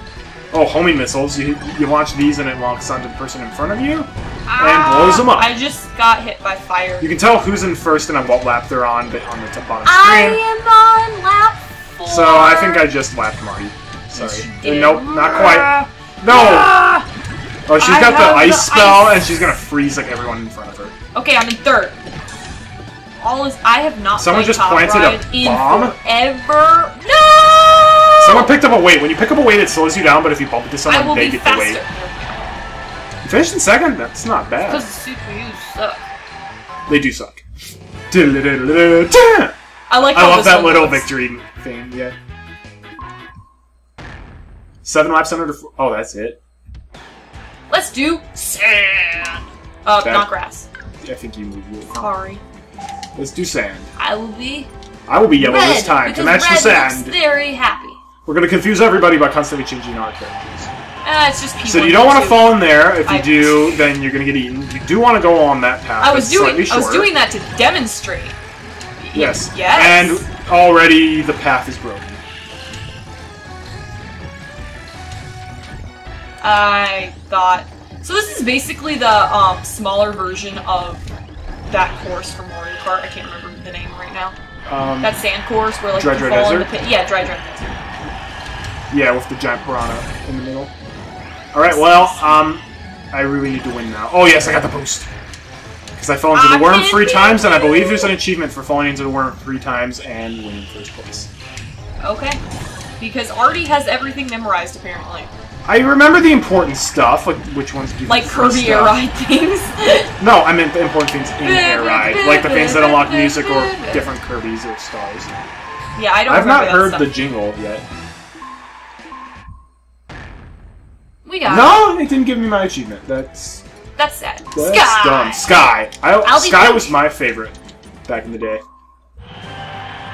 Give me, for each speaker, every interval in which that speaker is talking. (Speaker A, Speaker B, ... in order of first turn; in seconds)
Speaker A: 0.5-5.5, 7.0-10.4, 12.1-16.7, 17.7-20.9, 24.1-25.9, 28.2-31.8, 33.2-34.9, 36.9-37.4, 38.1-42.1, 44.8-46.4, 50.0-50.3, 51.0-52.1, 53.1-53.9, 55.1-57.2, 58.2-60.7, 61.6-67.1, 69.1-72.2, 84.7-85.2, 85.9-86.7, 88.9-90.7, 91.5-95.1, 96.0-101.3, 105.6-109.0, 110.2-115.3, 116.3-117.8, 121.4-123.6, 124.5-127.5, 128.1-128.6
Speaker B: 4.5-7.1, 9.8-12.9, 14.1-17.1, 17.8-19.5, 21.1-22.0, 23.2-28.5, 30.9-32.6, 34.6-36.0, 39.9-41.1, 47.7-50.6, 51.9-52.4, 54.0-54.7, 55.4-58.0, 61.0-63.8, 66.0-68.3, 69.0-70.2, 76.4-81.0, 81.7-84.3, 85.0-87.8, 91.6-92.4, 96.3-98.1, 102.0-102.4, 103.0-105.3, 108.0-110.1, 111.4-114.1, 115.9-117.1, 121.2-121.8, 124.0-125.6, 126.2-127.0